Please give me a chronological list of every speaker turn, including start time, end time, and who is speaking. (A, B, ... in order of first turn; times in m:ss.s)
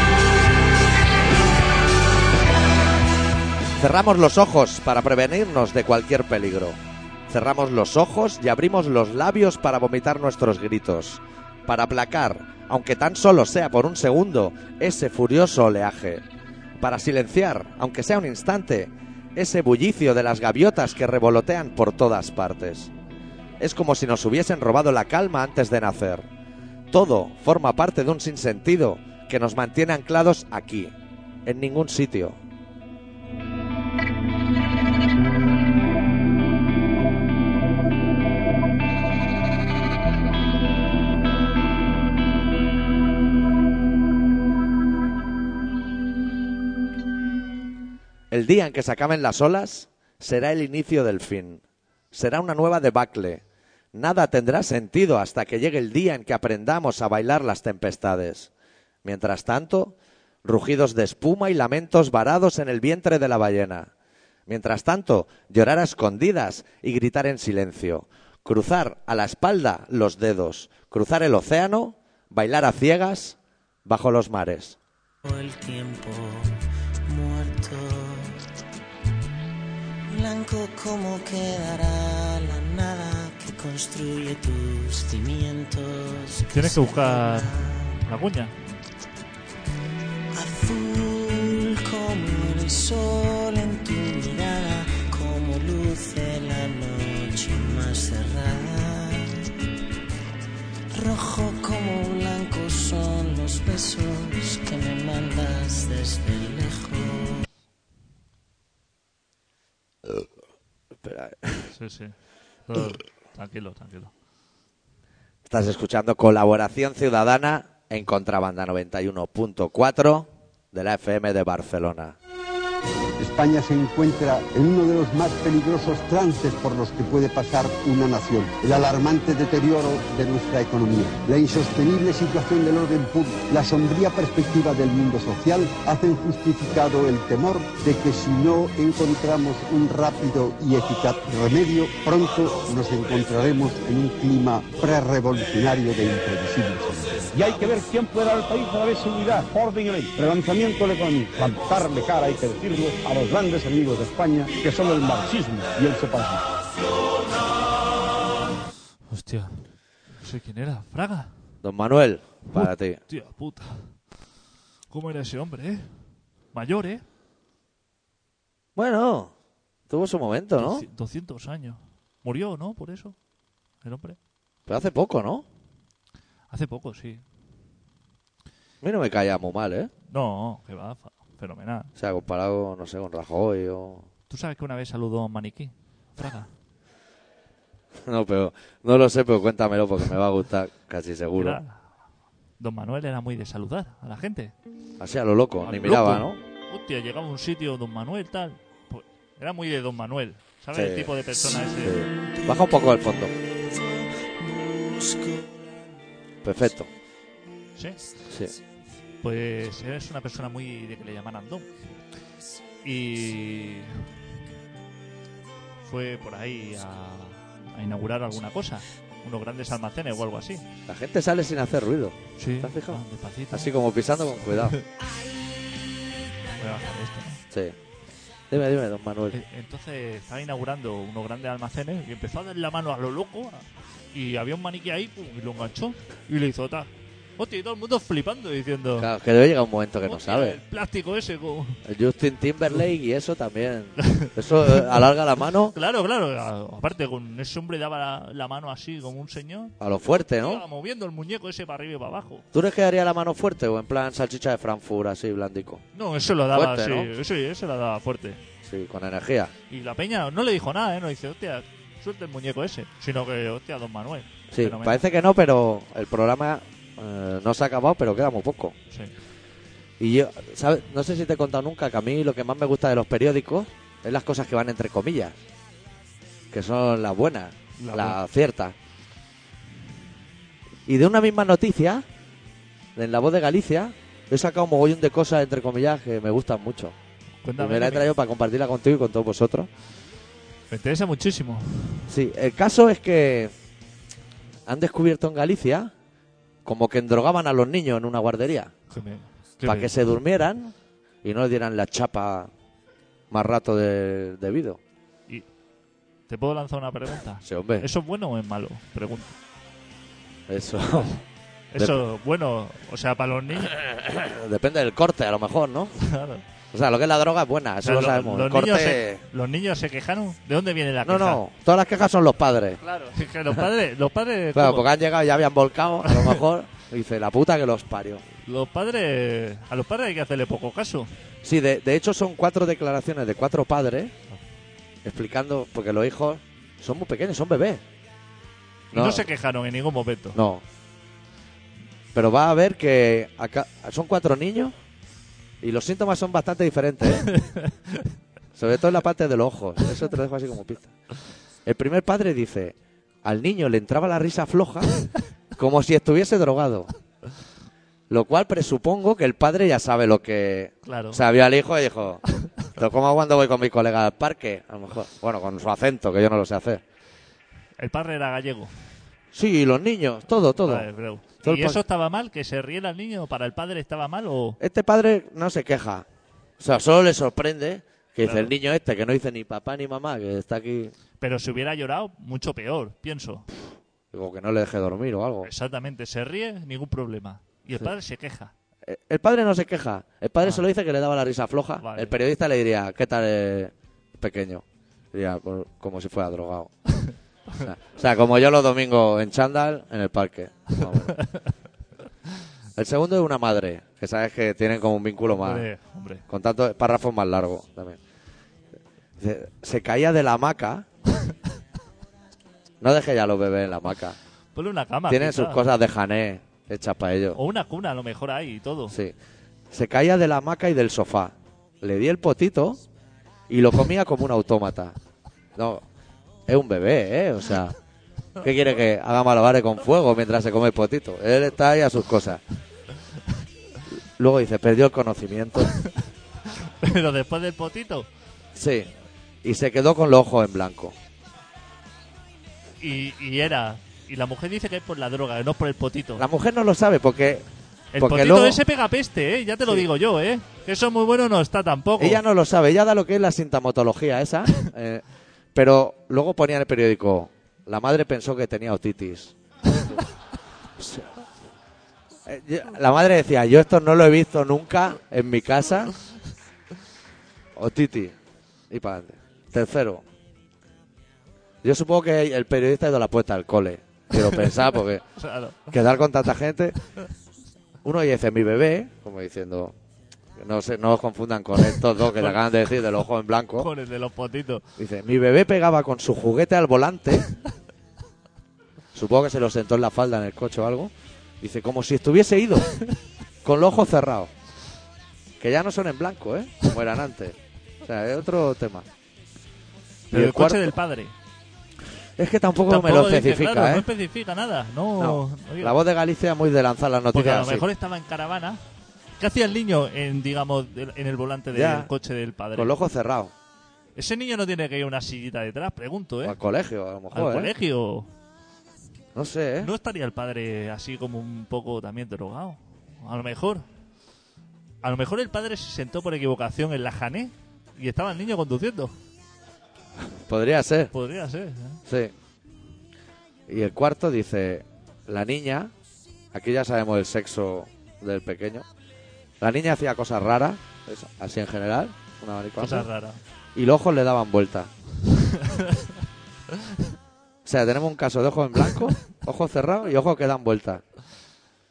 0:03.8-0:06.8 A
0:07.3-0:16.2 A
0:16.8-0:22.9 A
0:23.6-0:26.3 A
0:26.9-0:30.9 A
0:31.4-0:32.4 A
0:48.3-0:58.5 A
0:59.0-1:03.9 A
1:04.5-1:14.8 A
1:15.2-1:16.5 B
1:17.0-1:18.4 B
1:20.1-1:28.0 B
1:26.4-1:27.5 C
1:28.0-1:28.5 C
1:30.3-1:39.5 B
1:40.9-1:47.4 B
1:51.0-1:51.7 A
1:51.7-1:52.1 C
1:52.7-1:54.1 C
1:55.4-2:02.2 A
2:03.2-2:27.3 D
2:27.3-2:36.4 E
2:39.1-2:41.3 C
2:41.6-2:43.0 A
2:42.5-2:44.0 C
2:44.9-2:46.0 C
2:46.5-2:47.0 C
2:48.8-2:49.3 A
2:49.9-2:50.8 A
2:50.6-2:53.1 C
2:53.8-2:54.2 C
2:54.7-2:55.4 A
2:56.5-2:57.2 C
2:58.8-2:59.9 A
3:00.1-3:01.9 C
3:02.0-3:04.1 A
3:04.3-3:06.5 C
3:08.0-3:11.6 A
3:11.4-3:11.8 C
3:12.6-3:14.5 C
3:15.0-3:16.4 A
3:15.6-3:22.0 C
3:20.7-3:21.1 A
3:21.8-3:23.3 A
3:23.5-3:25.6 B
3:26.4-3:26.9 A
3:28.3-3:28.6 A
3:29.2-3:31.7 C
3:32.8-3:34.0 C
3:35.8-3:40.6 C
3:40.9-3:44.8 A
3:42.4-3:43.7 C
3:44.5-3:44.8 C
3:46.5-3:47.4 C
3:47.5-3:47.8 A
3:48.5-3:49.4 A
3:49.3-3:59.1 C
3:59.0-4:00.6 A
4:00.0-4:01.8 C
4:01.8-4:05.7 A
4:04.1-4:04.9 C
4:05.7-4:09.7 C
4:09.8-4:10.6 A
4:10.4-4:12.4 C
4:12.5-4:15.8 A
4:15.9-4:18.4 C
4:16.5-4:17.1 A
4:18.6-4:19.5 A
4:19.7-4:25.0 C
4:24.5-4:28.7 A
4:30.0-4:35.4 A
4:36.5-4:38.7 A
4:37.8-4:38.2 C
4:40.8-4:42.0 A
4:43.0-4:47.0 A
4:47.4-4:48.1 C
4:47.6-4:49.7 A
4:50.7-4:52.1 C
4:52.1-4:53.5 A
4:54.6-4:55.9 A
4:56.6-4:58.7 A
4:58.9-4:59.9 C
4:59.6-5:02.5 A
5:03.3-5:04.8 A
5:06.3-5:09.3 C
5:07.4-5:07.9 A
5:10.5-5:11.2 A
5:11.7-5:13.8 C
5:11.8-5:12.0 A
5:13.7-5:15.9 A
5:16.0-5:16.4 C
5:16.7-5:19.2 A
5:17.8-5:21.4 C
5:21.0-5:22.8 A
5:22.8-5:24.9 C
5:24.5-5:28.2 A
5:26.0-5:26.4 C
5:28.4-5:31.1 C
5:31.4-5:34.1 A
5:35.0-5:37.8 A
5:38.9-5:39.3 A
5:38.9-5:40.4 C
5:40.3-5:40.6 A
5:42.1-5:44.7 A
5:45.6-5:47.3 A
5:47.2-5:48.0 C
5:48.5-5:50.9 A
5:51.6-5:55.0 A
5:55.5-5:56.9 A
5:58.1-6:06.8 A
6:00.8-6:01.2 C
6:07.8-6:08.7 C
6:09.3-6:10.9 A
6:10.6-6:14.6 C
6:11.4-6:11.8 A
6:14.6-6:16.0 A
6:16.6-6:20.9 A
6:18.2-6:18.5 C
6:21.2-6:23.5 C
6:24.1-6:25.5 A
6:25.4-6:28.5 C
6:28.8-6:36.7 A
6:31.8-6:32.2 C
6:37.0-6:37.7 C
6:37.6-6:41.2 A
6:40.8-6:41.4 C
6:42.8-6:45.7 A
6:45.3-6:46.2 C
6:46.3-6:48.0 A
6:49.2-6:50.8 A
6:52.8-6:54.2 A
6:54.5-6:55.6 C
6:55.1-6:57.4 A
6:57.4-6:58.9 C
6:58.9-6:59.1 A
6:59.7-7:02.8 A
7:03.5-7:05.0 A
7:05.6-7:05.8 A
7:06.5-7:07.8 A
7:08.4-7:12.4 A
7:14.2-7:15.7 A
7:16.6-7:18.1 C
7:18.5-7:18.9 A
7:19.4-7:21.0 A
7:22.8-7:26.2 C
7:26.2-7:27.5 A
7:27.9-7:32.2 C
7:28.0-7:28.6 A
7:32.0-7:35.0 A
7:35.5-7:40.0 A
7:40.8-7:41.1 A
7:42.2-7:45.9 A
7:47.5-7:48.1 A
7:48.7-7:50.0 A
7:51.6-7:55.0 A
7:55.2-7:55.7 C
7:55.7-7:56.8 A
7:57.8-7:59.7 A
8:00.4-8:03.7 A
8:03.6-8:04.6 C
8:04.8-8:07.3 A
8:08.9-8:12.7 A
8:13.4-8:14.3 A
8:15.4-8:18.9 A
8:20.1-8:20.8 A
8:20.1-8:21.1 C
8:22.2-8:23.8 A
8:22.7-8:25.8 C
8:25.0-8:27.6 A
8:27.1-8:28.6 C
8:29.2-8:32.7 C
8:31.5-8:31.9 A
8:32.5-8:33.3 A
8:34.0-8:36.4 C
8:36.2-8:37.5 A
8:37.1-8:38.1 C
8:39.1-8:39.7 A
8:39.6-8:43.6 C
8:44.8-8:48.9 C
8:50.0-8:50.9 A
8:50.9-8:51.8 C
8:51.8-8:52.1 A
8:53.5-8:55.7 A
8:56.3-8:58.7 A
8:59.4-9:02.9 A
9:02.6-9:03.2 C
9:03.5-9:04.7 A
9:05.2-9:05.9 C
9:07.4-9:10.8 A